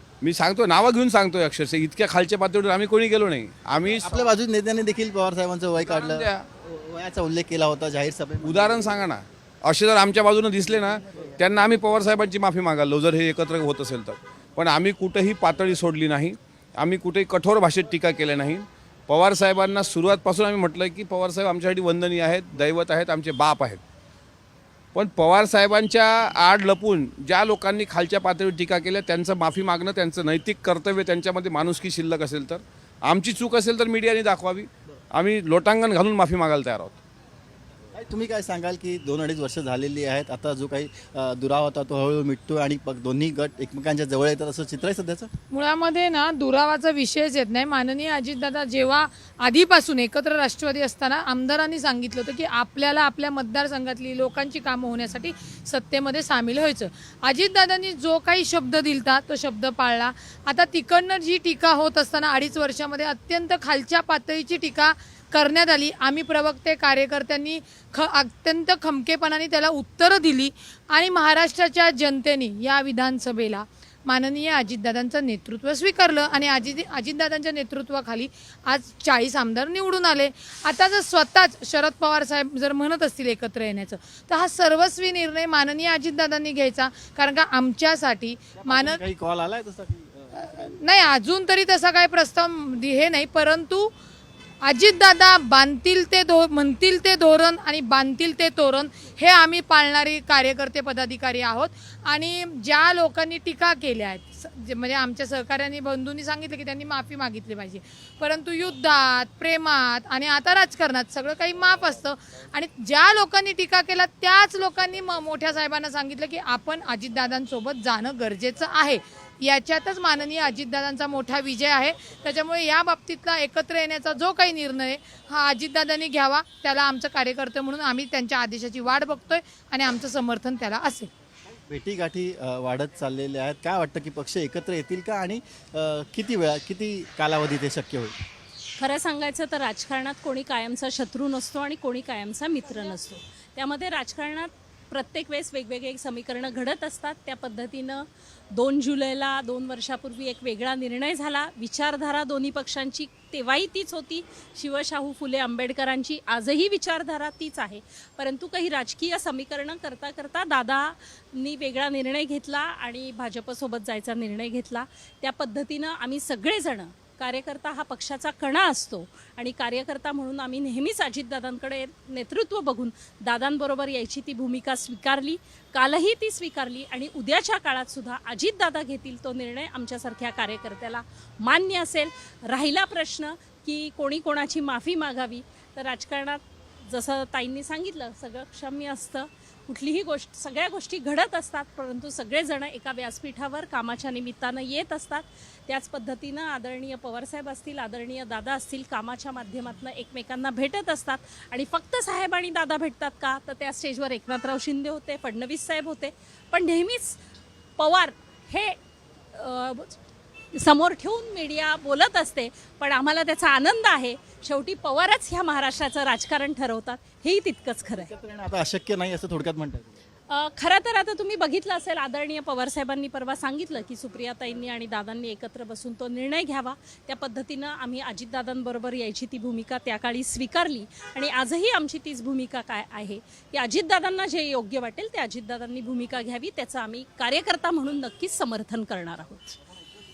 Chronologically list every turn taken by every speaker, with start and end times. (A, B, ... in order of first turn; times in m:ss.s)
0:00.2-0:04.3 A
0:03.9-0:09.0 B
0:05.8-0:06.5 A
0:08.4-0:23.8 A
0:25.0-0:37.0 A
0:38.0-0:45.3 B
0:45.5-1:29.0 C
1:28.6-1:30.8 B
1:30.6-1:33.9 C
1:34.6-2:11.1 C
2:11.7-2:18.1 B
2:18.8-3:27.2 D
3:27.8-3:28.8 D
3:29.3-3:30.0 D
3:30.6-3:38.1 D
3:37.9-3:39.9 B
3:40.3-3:59.6 D